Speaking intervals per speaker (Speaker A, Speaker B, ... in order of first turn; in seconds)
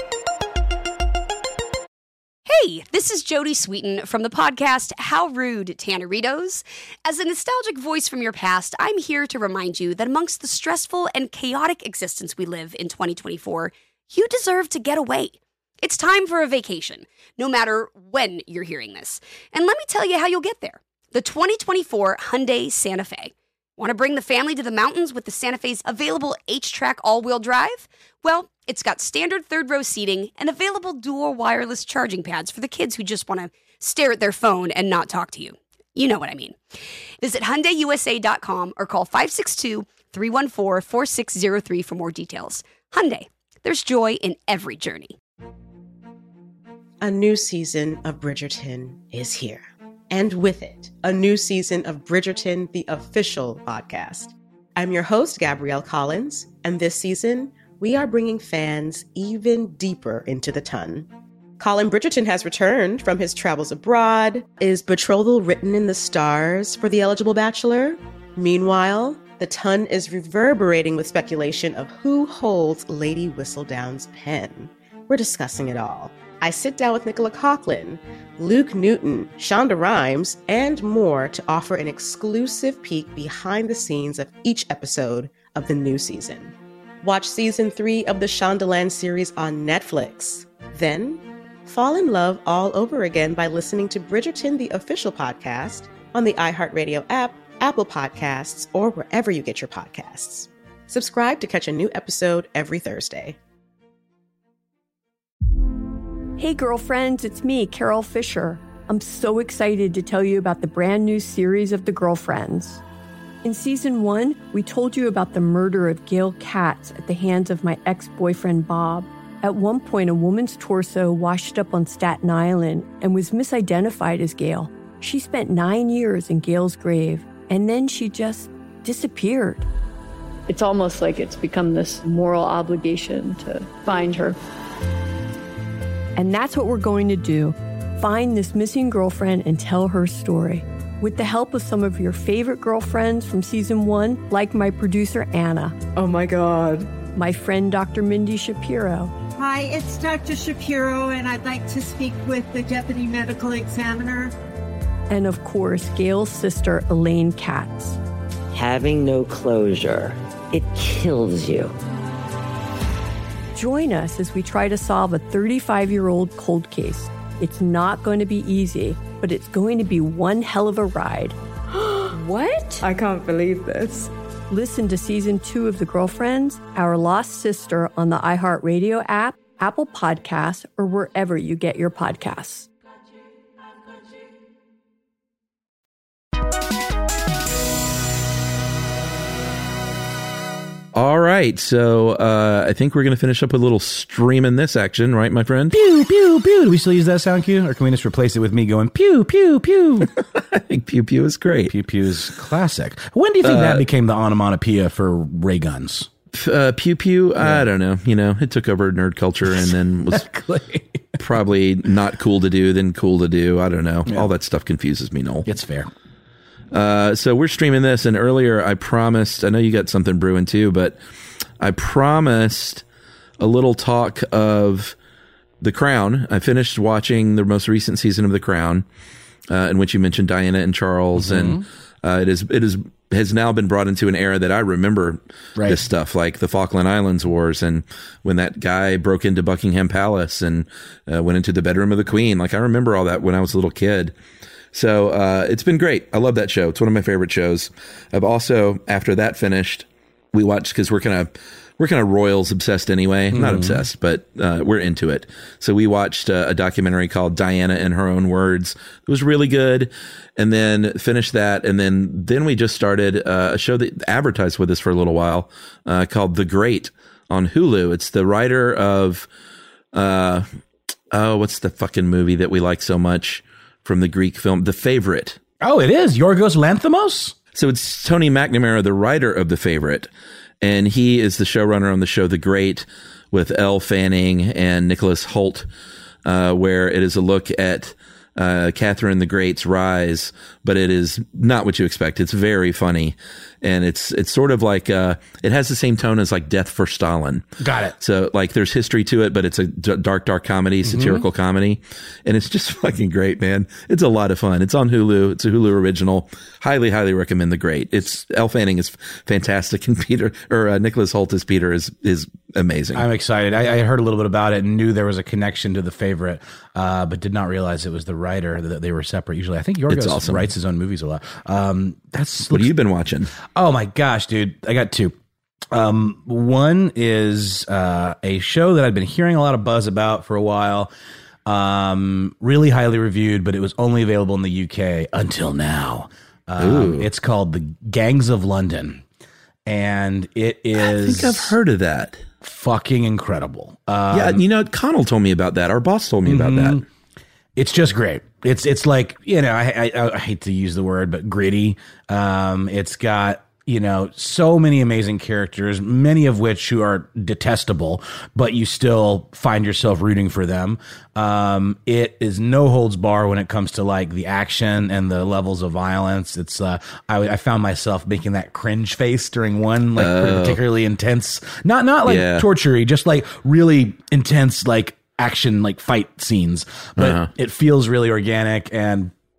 Speaker A: 2.5-36.6, 37.2-45.1
Speaker B: 47.0-61.1, 61.6-103.3
Speaker C: 106.4-112.8, 113.4-129.7, 136.2-145.8, 147.2-149.1, 155.1-158.0, 163.5-171.3, 174.5-182.7
Speaker D: 130.5-134.4
Speaker E: 145.9-146.9, 171.8-174.1
Speaker F: 149.3-154.3
Speaker G: 158.5-161.7
Speaker H: 190.9-195.7, 200.2-201.7, 203.4-203.8, 206.3-210.3, 211.2-215.5, 216.7-221.0, 221.6-222.8, 223.4-224.9, 225.6-228.8, 229.5-244.1, 244.7-269.3, 269.9-270.5, 271.1-275.4, 277.5-280.1, 280.6-285.7, 286.2-313.0, 319.9-320.5, 322.5-323.3, 336.6-337.1, 340.8-342.2, 344.1-346.8, 370.0-370.6, 372.1-372.4, 377.0-377.3
Speaker I: 195.7-200.1, 201.7-206.1, 207.4-207.7, 209.4-211.2, 215.4-215.9, 231.1-231.6, 235.6-235.8, 253.3-253.8, 275.6-277.3, 297.6-297.9, 300.8-301.2, 312.9-322.7, 323.4-325.1, 325.7-330.9, 331.4-339.0, 339.6-341.5, 342.4-344.4, 346.2-346.9, 347.6-379.1